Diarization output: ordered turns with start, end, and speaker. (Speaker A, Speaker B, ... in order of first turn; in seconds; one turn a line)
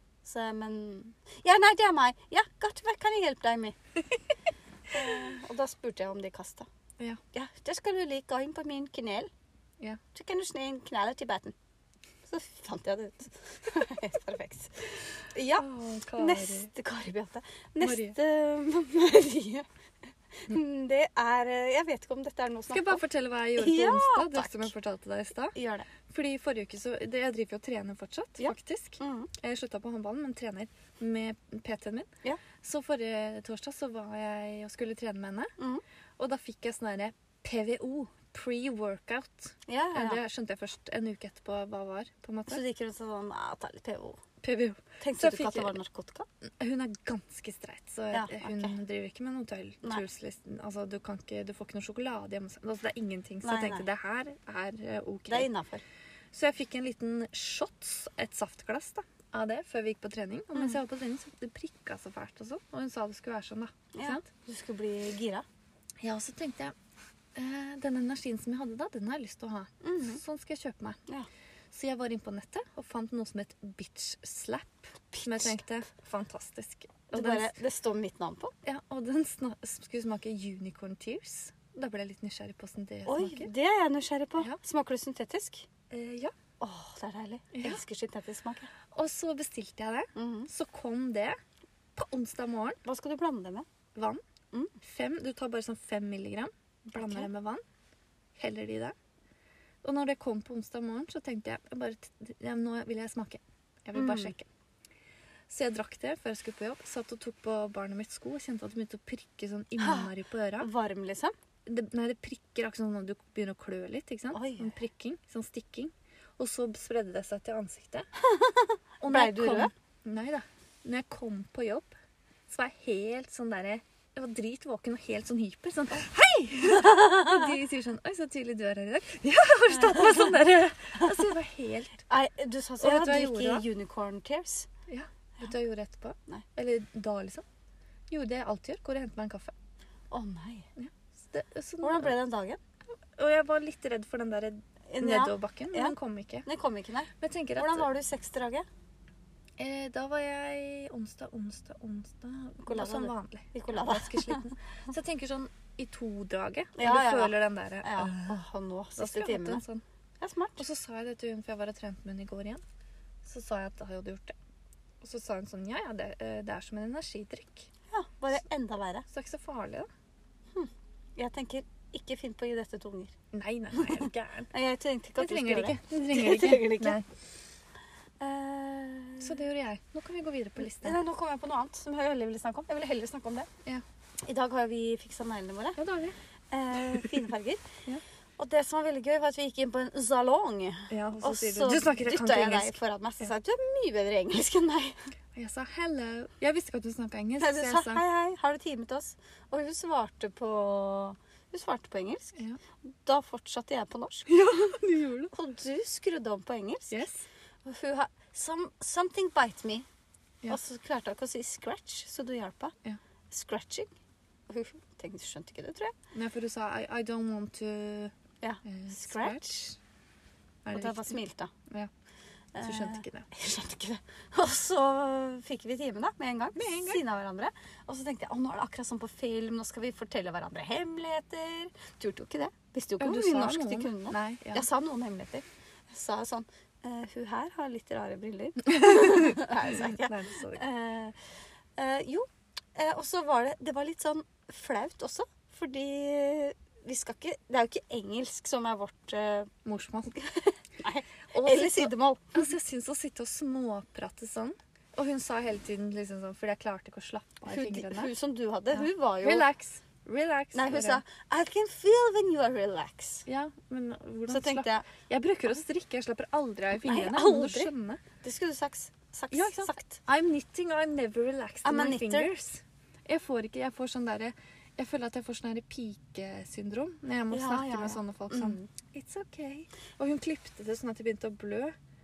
Speaker A: 0.2-3.8
Speaker A: 4.9-6.7
Speaker A: 7.3-9.3
Speaker A: 10.1-11.5
Speaker A: 12.2-19.6
Speaker B: 15.5-16.7
Speaker B: 17.8-18.2
Speaker A: 20.3-23.0
Speaker B: 22.7-32.1
Speaker A: 23.6-24.7
Speaker A: 25.5-25.9
Speaker A: 28.4-29.3
Speaker B: 32.6-35.5
Speaker A: 35.6-35.8
Speaker B: 36.2-42.6
Speaker A: 39.7-40.2
Speaker A: 42.5-44.2
Speaker B: 44.4-45.8
Speaker A: 45.0-46.3
Speaker B: 46.6-55.5
Speaker A: 48.1-48.8
Speaker A: 53.4-53.9
Speaker A: 55.3-55.8
Speaker B: 56.3-64.2
Speaker A: 63.9-65.5
Speaker B: 66.0-66.7
Speaker B: 67.3-71.0
Speaker A: 69.8-70.2
Speaker B: 71.7-77.5
Speaker A: 75.1-75.6
Speaker A: 77.1-78.5
Speaker B: 78.6-83.5
Speaker A: 83.0-85.7
Speaker B: 85.9-86.3
Speaker A: 86.6-88.7
Speaker B: 87.5-87.8
Speaker B: 88.9-91.4
Speaker A: 90.1-90.5
Speaker B: 92.0-92.8
Speaker A: 92.8-93.7
Speaker B: 93.9-94.2
Speaker B: 94.8-97.6
Speaker A: 96.9-97.3
Speaker B: 98.3-98.9
Speaker B: 99.8-104.5
Speaker A: 103.9-104.3
Speaker B: 105.5-110.7
Speaker A: 109.8-111.3
Speaker B: 111.7-118.1
Speaker A: 114.3-114.8
Speaker A: 118.2-119.7
Speaker B: 119.0-122.0
Speaker B: 122.5-132.1
Speaker A: 126.9-127.4
Speaker A: 129.9-130.1
Speaker A: 132.1-134.7
Speaker B: 132.8-133.6
Speaker B: 134.9-137.4
Speaker B: 138.1-139.5
Speaker A: 140.1-140.7
Speaker B: 140.8-142.2
Speaker A: 141.8-142.6
Speaker B: 143.1-146.4
Speaker A: 144.9-148.7
Speaker B: 147.2-147.9
Speaker B: 149.6-158.4
Speaker A: 152.6-154.5
Speaker A: 156.8-159.6
Speaker B: 158.9-159.8
Speaker A: 160.2-160.6
Speaker B: 160.6-162.6
Speaker B: 163.2-164.3
Speaker B: 165.0-167.7
Speaker A: 167.9-169.1
Speaker B: 169.1-169.9
Speaker A: 170.5-173.2
Speaker B: 173.3-174.5
Speaker A: 173.7-177.0
Speaker B: 175.2-177.1
Speaker A: 178.2-179.4
Speaker B: 179.2-181.0
Speaker A: 180.6-183.5
Speaker A: 184.2-185.8
Speaker B: 185.8-186.2
Speaker A: 186.5-187.7
Speaker A: 188.4-195.0
Speaker B: 190.9-193.2
Speaker B: 195.3-198.0
Speaker A: 197.4-202.4
Speaker A: 203.0-204.3
Speaker B: 204.3-205.3
Speaker A: 205.3-207.0
Speaker B: 206.9-207.2
Speaker A: 207.6-209.8
Speaker A: 210.5-212.8
Speaker A: 213.3-213.9
Speaker A: 214.5-215.9
Speaker B: 216.1-219.6
Speaker A: 218.4-219.8
Speaker B: 220.6-221.9
Speaker A: 220.7-221.5
Speaker A: 222.5-249.5
Speaker B: 222.6-223.3
Speaker B: 226.5-227.0
Speaker B: 233.0-234.7
Speaker B: 238.7-240.6
Speaker B: 249.6-250.2
Speaker A: 250.1-252.4
Speaker B: 251.3-258.1
Speaker A: 257.5-259.4
Speaker B: 258.7-261.0
Speaker A: 260.5-263.2
Speaker B: 263.3-268.0
Speaker A: 264.3-264.9
Speaker A: 266.7-270.0
Speaker B: 269.3-281.8
Speaker A: 271.6-272.3
Speaker A: 277.3-278.6